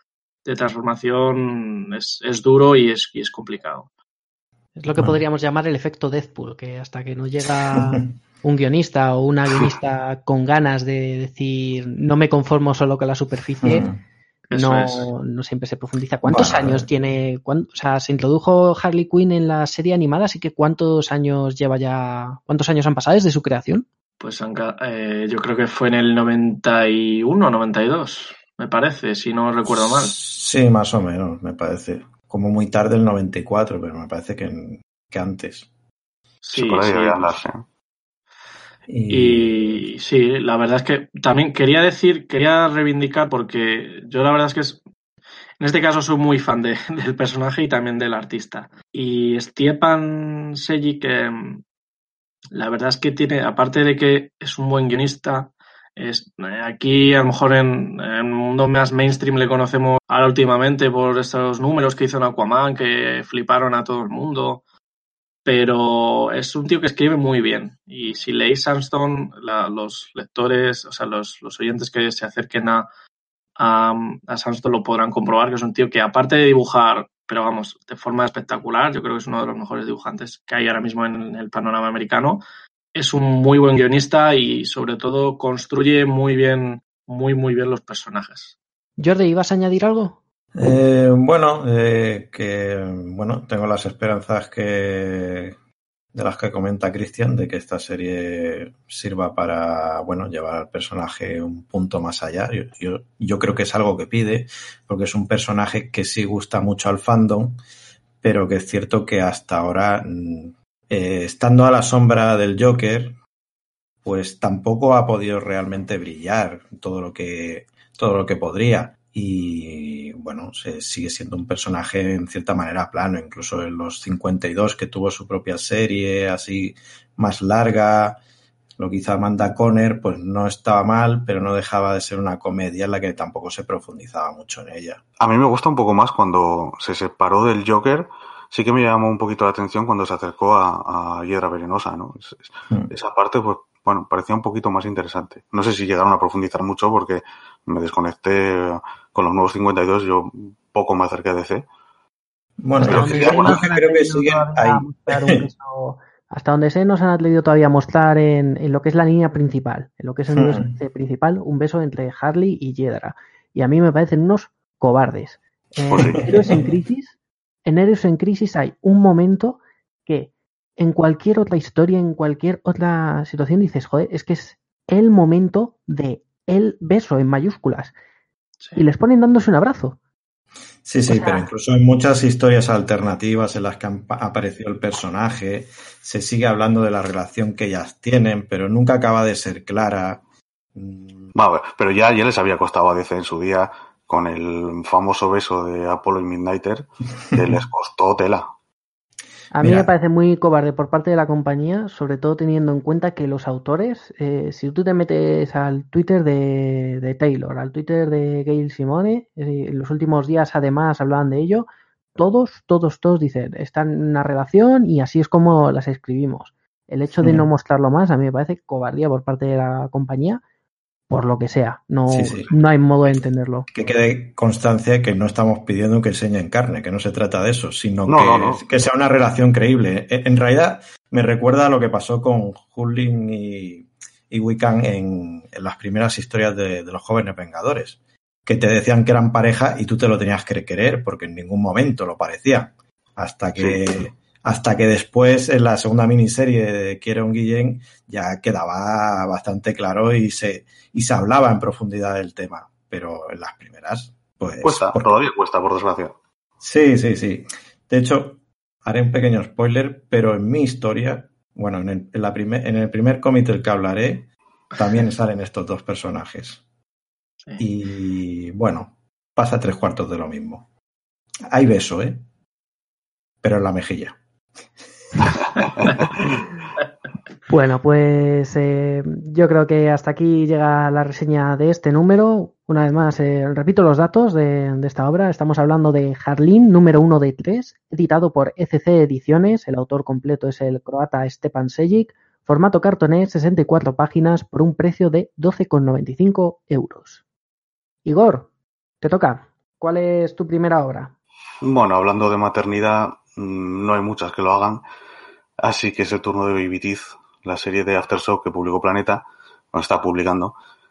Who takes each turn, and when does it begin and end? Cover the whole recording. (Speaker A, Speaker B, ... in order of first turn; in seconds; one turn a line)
Speaker A: 0.4-3.9
Speaker B: 4.8-13.9
Speaker C: 13.6-14.0
Speaker A: 14.5-15.1
Speaker B: 14.5-23.8
Speaker C: 16.2-16.9
Speaker A: 24.2-30.2
Speaker C: 29.7-35.7
Speaker A: 36.4-37.3
Speaker D: 36.5-37.6
Speaker C: 38.9-39.8
Speaker A: 39.1-44.8
Speaker A: 45.6-51.6
Speaker A: 52.5-64.6
Speaker A: 65.5-72.9
Speaker A: 73.6-82.4
Speaker A: 82.9-88.5
Speaker B: 89.0-90.2
Speaker C: 90.5-95.5
Speaker C: 96.1-107.6
Speaker C: 108.2-113.2
Speaker C: 114.0-128.2
Speaker C: 128.8-135.0
Speaker D: 135.2-151.7
Speaker C: 152.6-155.4
Speaker B: 152.8-167.1
Speaker D: 152.8-153.6
Speaker C: 160.3-160.7
Speaker D: 165.9-166.6
Speaker C: 166.0-166.6
Speaker B: 167.7-177.9
Speaker B: 178.8-180.0
Speaker C: 180.8-190.2
Speaker B: 181.1-181.4
Speaker C: 190.7-191.3
Speaker D: 191.3-198.5
Speaker B: 199.5-220.4
Speaker C: 199.6-199.9
Speaker B: 221.1-223.7
Speaker C: 222.1-222.5
Speaker C: 223.7-255.1
Speaker D: 228.1-228.6
Speaker D: 254.6-256.1
Speaker C: 256.6-266.6
Speaker C: 267.6-270.6
Speaker C: 271.5-272.2
Speaker C: 273.4-274.2
Speaker B: 277.5-297.2
Speaker B: 298.1-298.5
Speaker B: 299.0-301.1
Speaker D: 301.6-304.8
Speaker D: 305.6-310.5